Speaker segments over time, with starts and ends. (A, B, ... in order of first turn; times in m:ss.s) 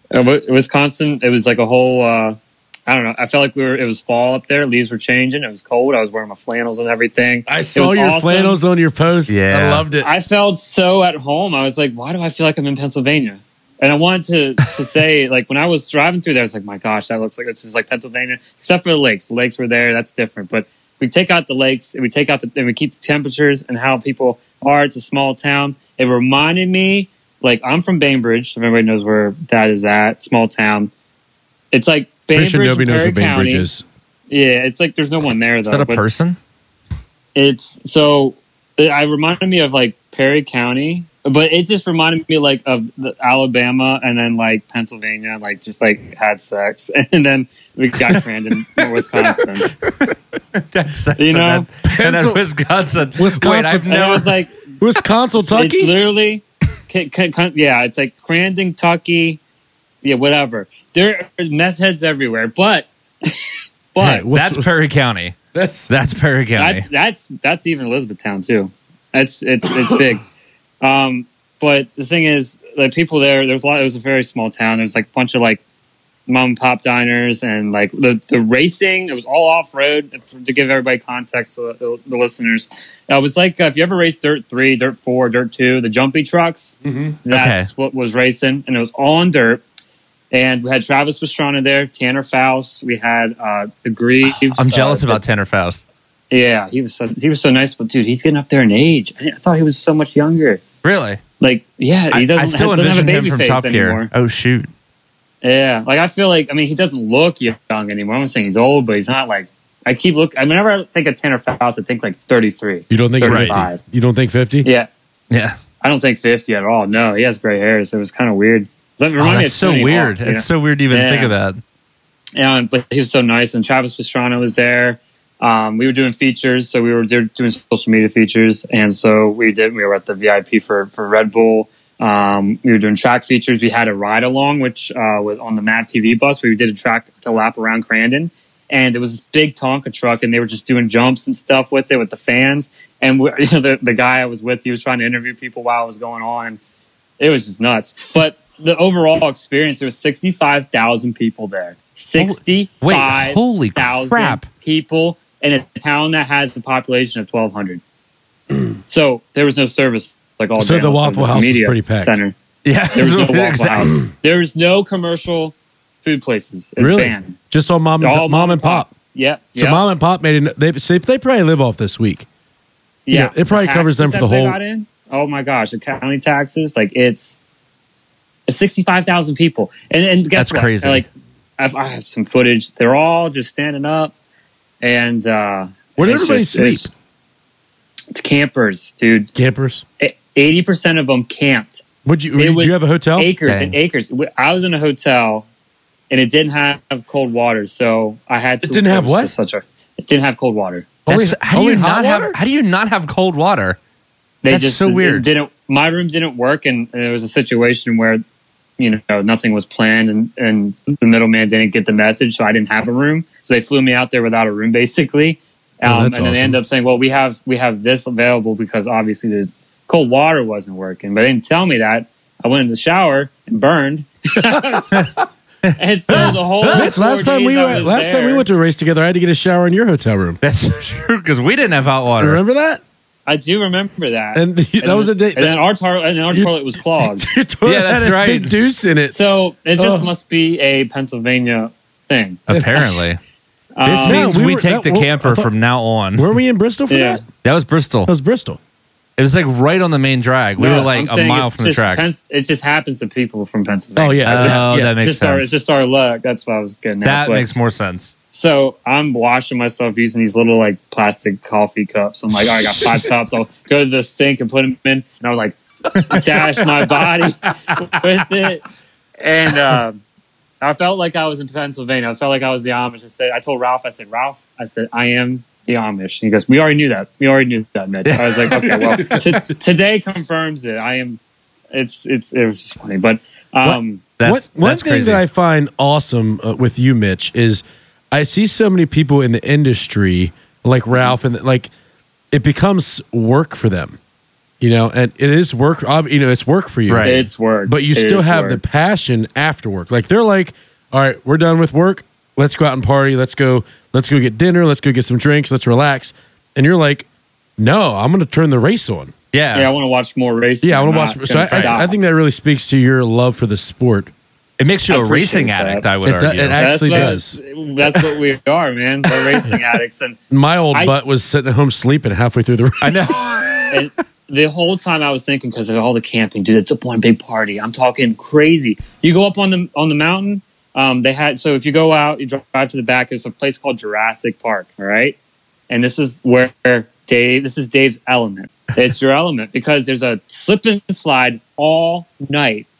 0:00.1-0:08.6 A
0:07.4-0:10.1 B
0:09.3-0:09.8 C
0:10.0-0:30.9 A
0:31.7-0:33.7 A
0:32.3-0:33.8 B
0:34.3-0:36.0 A
0:35.7-0:36.4 C
0:37.4-0:49.7 A
0:49.2-0:54.3 C
0:51.2-0:51.7 A
0:51.8-0:52.4 B
0:53.2-0:54.3 B
0:53.9-0:54.6 A
0:54.8-0:55.9 B
0:55.4-0:59.4 A
1:00.0-1:04.2 A
1:04.0-1:04.6 B
1:04.3-1:05.4 C
1:05.5-1:05.9 B
1:05.9-1:06.8 C
1:06.6-1:10.2 A
1:10.8-1:15.6 A
1:16.3-1:29.6 A
1:26.8-1:27.2 B
1:27.3-1:27.7 C
1:30.3-1:35.2 A
1:34.3-1:35.8 C
1:36.3-1:40.6 A
1:40.8-1:41.2 C
1:41.4-1:44.1 A
1:42.1-1:44.7 C
1:45.4-1:53.8 A
1:52.9-1:54.7 B
1:53.2-1:53.6 C
1:54.6-1:54.9 A
1:55.3-1:55.6 C
1:55.8-2:01.3 A
1:59.2-2:01.6 C
2:02.4-2:26.6 A
2:27.2-2:37.8 A
2:32.2-2:34.4 C
2:38.9-2:42.3 A
2:40.6-2:42.2 B
2:42.6-2:44.0 C
2:42.9-2:47.4 A
2:46.8-2:48.9 B
2:48.0-2:49.8 A
2:49.6-2:52.2 B
2:53.0-2:57.4 A
2:53.1-2:54.6 B
2:58.5-3:04.1 A
3:00.4-3:01.0 C
3:04.8-3:06.9 A
3:06.0-3:06.9 B
3:08.1-3:09.3 A
3:09.3-3:09.8 B
3:10.0-3:11.8 A
3:12.0-3:13.3 B
3:12.4-3:15.4 A
3:13.4-3:13.7 C
3:16.1-3:20.9 A
3:18.6-3:19.3 B
3:21.0-3:22.4 B
3:21.1-3:23.8 C
3:24.4-3:28.2 A
3:24.5-3:25.3 C
3:28.8-3:45.1 A
3:35.8-3:36.6 B
3:45.7-3:46.9 C
3:45.8-3:48.4 A
3:46.7-3:50.4 B
3:50.4-3:52.4 C
3:52.2-3:52.8 B
3:53.3-3:57.3 A
3:54.3-3:55.6 B
3:56.3-3:59.2 B
3:57.6-3:58.5 C
3:59.1-4:02.4 A
3:59.8-4:00.1 B
4:02.5-4:03.2 C
4:03.8-4:04.3 A
4:03.8-4:06.3 C
4:04.0-4:05.5 B
4:06.1-4:07.2 B
4:06.9-4:07.2 A
4:07.4-4:08.1 C
4:08.0-4:08.6 B
4:09.2-4:12.0 C
4:10.6-4:17.4 A
4:14.0-4:14.9 B
4:14.2-4:15.5 C
4:17.0-4:18.1 C
4:18.3-4:28.6 A
4:26.0-4:27.8 C
4:29.2-4:30.0 A
4:30.6-4:41.2 A
4:38.0-4:39.4 C
4:41.7-4:44.0 A
4:43.6-4:51.7 B
4:44.2-4:45.2 C
4:52.3-4:54.0 B
4:54.6-5:07.0 B
4:56.9-4:57.2 C
4:57.0-4:58.6 A
5:07.6-5:09.1 B
5:09.3-5:09.7 C
5:09.5-5:11.9 A
5:10.6-5:14.1 B
5:11.5-5:11.8 C
5:14.6-5:17.1 C
5:14.9-5:15.8 A
5:16.0-5:17.4 B
5:16.6-5:20.2 A
5:20.3-5:23.0 B
5:20.7-5:21.0 A
5:22.8-5:23.8 C
5:23.7-5:35.2 A
5:35.7-5:42.7 A